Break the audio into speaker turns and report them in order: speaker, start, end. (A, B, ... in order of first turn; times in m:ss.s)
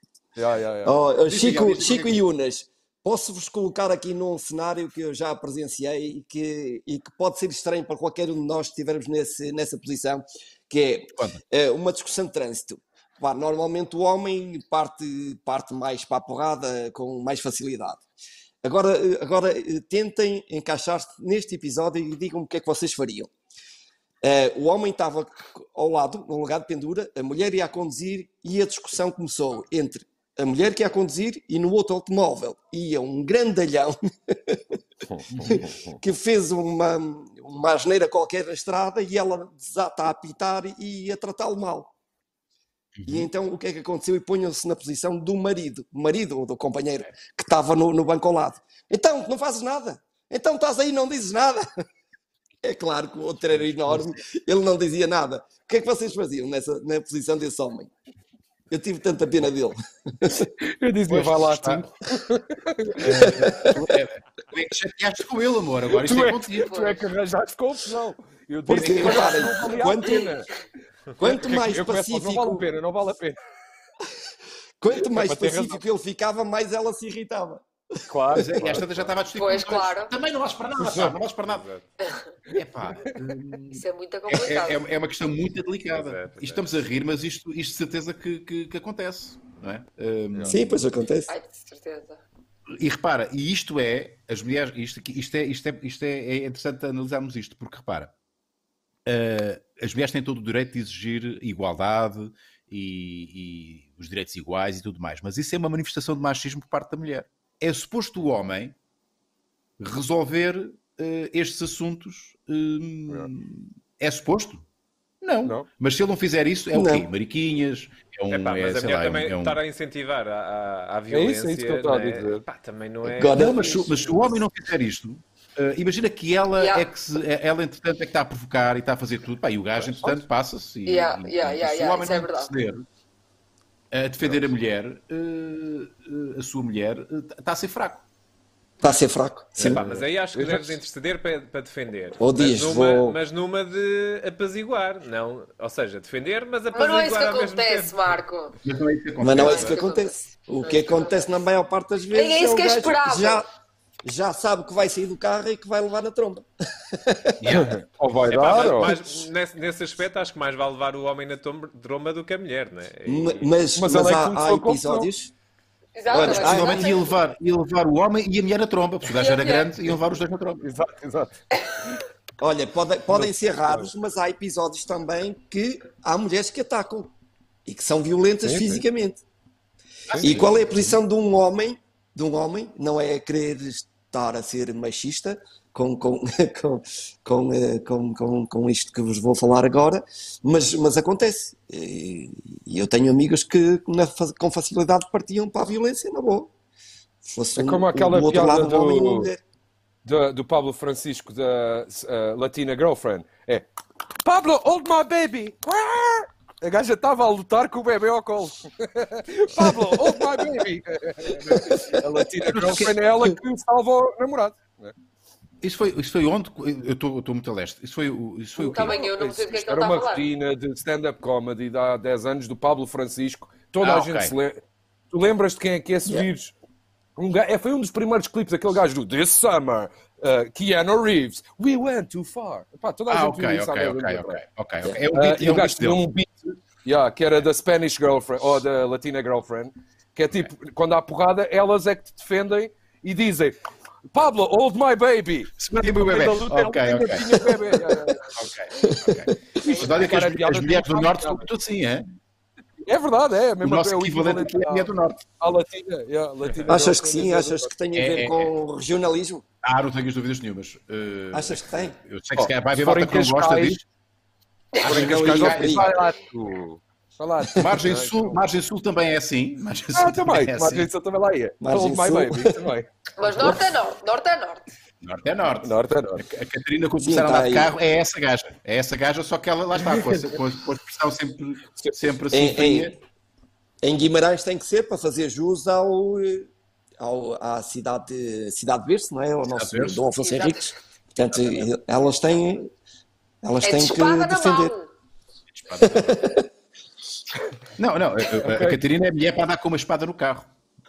0:00.4-0:01.0 A
0:00.8-0:18.0 B
0:01.2-0:02.2 C
0:11.1-0:11.4 C
0:18.6-0:23.3 B
0:24.2-0:34.8 B
0:35.1-0:36.0 A
0:35.3-0:35.6 C
0:35.4-0:41.9 B
0:43.0-0:43.3 C
0:43.0-0:51.6 B
0:52.6-0:57.9 B
0:58.7-1:00.4 B
1:00.7-1:03.7 A
1:01.1-1:01.9 C
1:03.0-1:06.7 C
1:03.2-1:03.7 B
1:05.9-1:10.5 A
1:06.5-1:07.0 D
1:08.7-1:10.3 B
1:08.7-1:09.8 C
1:11.2-1:13.4 A
1:11.2-1:12.7 B
1:14.8-1:18.6 B
1:15.0-1:15.8 A
1:18.1-1:18.8 A
1:18.3-1:21.7 C
1:18.5-1:19.1 E
1:19.3-1:20.1 D
1:20.8-1:21.2 A
1:21.3-1:21.9 E
1:22.6-1:30.8 C
1:23.7-1:24.8 D
1:25.9-1:26.6 E
1:30.3-1:30.6 A
1:30.5-1:31.3 B
1:31.3-1:32.2 D
1:32.8-1:38.1 C
1:39.0-1:48.7 C
1:49.8-1:54.6 C
1:55.2-1:59.6 C
1:55.4-1:55.7 A
1:56.7-1:57.1 B
1:58.3-2:03.8 E
2:01.1-2:02.4 A
2:03.1-2:03.8 B
2:03.2-2:12.8 C
2:06.5-2:06.9 D
2:09.8-2:10.1 E
2:10.8-2:12.5 D
2:13.9-2:18.0 C
2:18.8-2:19.8 B
2:19.6-2:19.9 C
2:19.6-2:28.2 E
2:19.7-2:20.8 A
2:22.2-2:23.2 B
2:26.7-2:28.5 D
2:28.6-2:29.8 C
2:29.2-2:33.5 B
2:29.3-2:31.2 D
2:32.1-2:33.4 D
2:34.0-2:37.6 B
2:37.4-2:39.2 C
2:37.5-2:39.0 A
2:38.3-2:43.6 E
2:43.0-2:45.3 B
2:43.8-2:45.1 A
2:46.0-2:47.2 D
2:46.1-2:46.9 B
2:46.1-2:50.6 C
2:49.2-2:49.7 D
2:50.6-2:51.3 A
2:51.5-2:52.0 D
2:52.4-2:57.1 B
2:53.1-2:53.9 A
2:57.6-2:59.2 B
2:58.4-2:58.8 A
3:00.1-3:00.9 C
3:00.1-3:00.5 A
3:00.2-3:16.5 B
3:17.3-3:19.4 B
3:17.6-3:19.3 A
3:20.0-3:23.7 A
3:24.2-3:34.9 A
3:32.5-3:33.0 C
3:35.6-3:39.1 C
3:38.6-3:40.3 D
3:38.6-3:46.5 A
3:43.8-3:44.3 C
3:47.2-3:54.4 A
3:53.1-3:56.0 C
3:55.1-4:03.6 A
4:04.1-4:08.4 A
4:05.6-4:07.5 C
4:08.4-4:12.0 C
4:08.8-4:09.3 B
4:09.6-4:11.5 A
4:12.8-4:17.7 A
4:13.6-4:15.2 C
4:16.7-4:19.4 B
4:17.9-4:18.5 C
4:19.6-4:23.8 C
4:21.3-4:21.9 B
4:22.3-4:23.8 A
4:24.8-4:26.3 C
4:24.8-4:28.4 A
4:24.8-4:25.9 B
4:27.5-4:30.9 C
4:29.9-4:33.6 A
4:31.6-4:32.6 B
4:33.2-4:34.7 D
4:35.0-4:43.0 C
4:35.6-4:36.2 A
4:37.0-4:37.7 B
4:39.8-4:40.3 A
4:42.3-4:42.9 B
4:43.8-4:46.5 B
4:47.0-4:52.7 B
4:49.4-4:50.0 C
4:50.2-4:50.7 D
4:51.2-4:51.7 C
4:53.4-4:54.7 B
4:53.6-4:54.9 D
4:55.5-4:56.2 C
4:55.8-4:56.4 B
4:57.8-5:00.5 C
4:58.4-4:58.8 A